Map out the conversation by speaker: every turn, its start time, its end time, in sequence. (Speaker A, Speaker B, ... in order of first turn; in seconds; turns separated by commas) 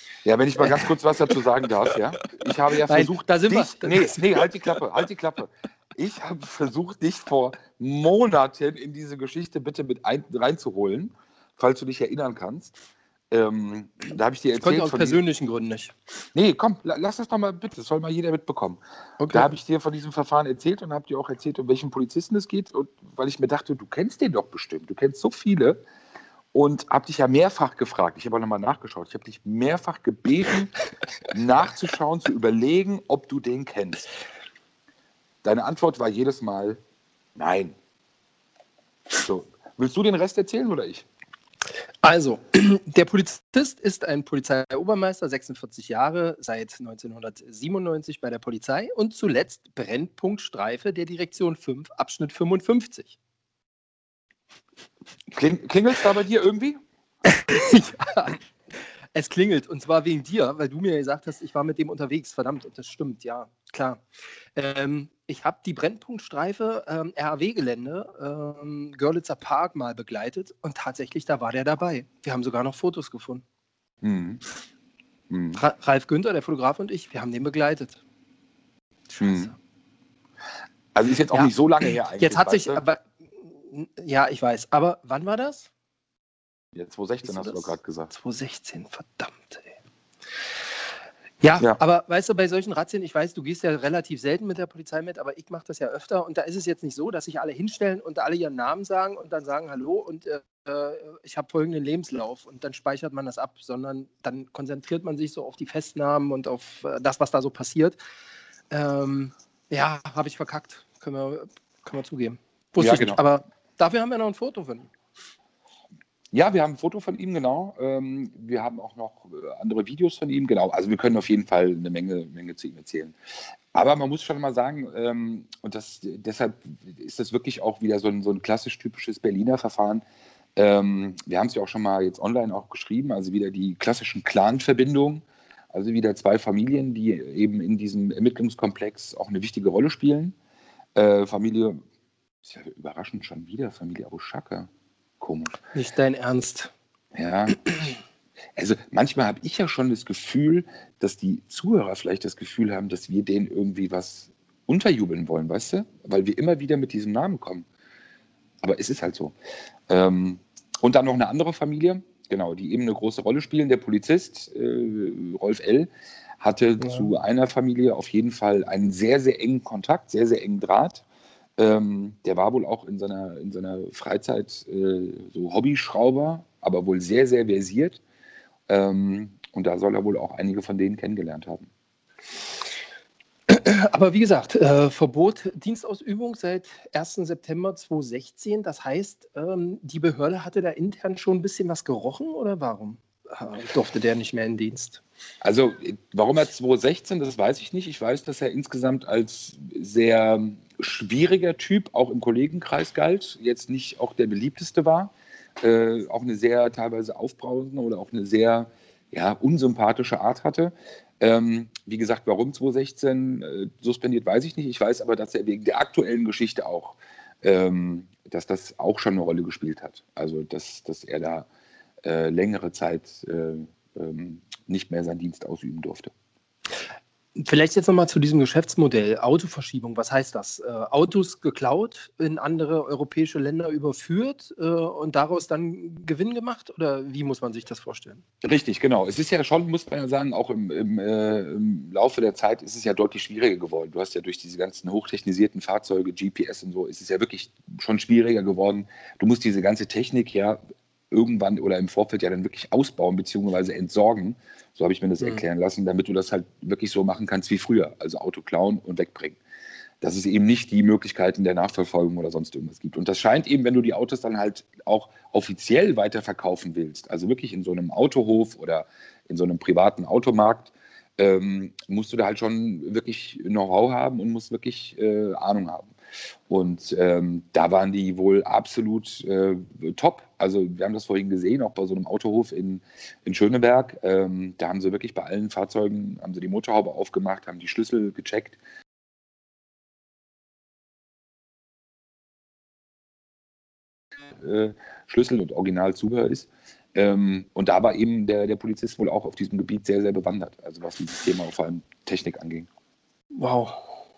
Speaker A: 0.2-12.7, Speaker B: 0.6-0.9, Speaker B: 2.8-4.4, Speaker A: 13.3-15.2, Speaker B: 14.6-15.9, Speaker A: 16.3-25.8, Speaker B: 19.2-19.5, Speaker A: 26.5-30.7, Speaker A: 31.3-34.1, Speaker A: 35.4-36.8, Speaker A: 37.4-37.7, Speaker A: 39.1-41.1, Speaker B: 42.0-53.2, Speaker A: 55.3-56.8, Speaker B: 57.2-58.4, Speaker B: 59.1-64.0, Speaker B: 64.5-73.4, Speaker A: 74.0-74.4, Speaker A: 75.3-75.6, Speaker B: 75.5-78.0, Speaker B: 79.1-79.6, Speaker A: 79.2-79.5, Speaker A: 80.9-82.8, Speaker B: 81.3-85.7, Speaker A: 86.7-88.1, Speaker B: 87.2-89.8, Speaker B: 91.4-108.0, Speaker B: 108.7-114.9, Speaker A: 112.8-113.2, Speaker A: 116.3-123.1, Speaker A: 123.7-130.0, Speaker A: 130.6-140.3, Speaker A: 140.9-141.8, Speaker A: 142.4-144.7, Speaker A: 145.2-145.6, Speaker B: 145.7-146.7, Speaker A: 147.1-147.7, Speaker A: 148.6-157.7, Speaker A: 158.6-159.3, Speaker A: 159.9-165.9, Speaker A: 166.4-171.0, Speaker B: 166.8-167.1, Speaker A: 171.6-178.0, Speaker A: 178.7-181.7, Speaker B: 183.5-195.0, Speaker A: 195.4-221.5, Speaker A: 222.0-226.1, Speaker B: 227.3-238.2, Speaker A: 238.4-250.6, Speaker A: 251.1-259.4, Speaker A: 260.0-275.9, Speaker A: 276.5-288.6, Speaker A: 294.4-302.7, Speaker B: 303.3-303.9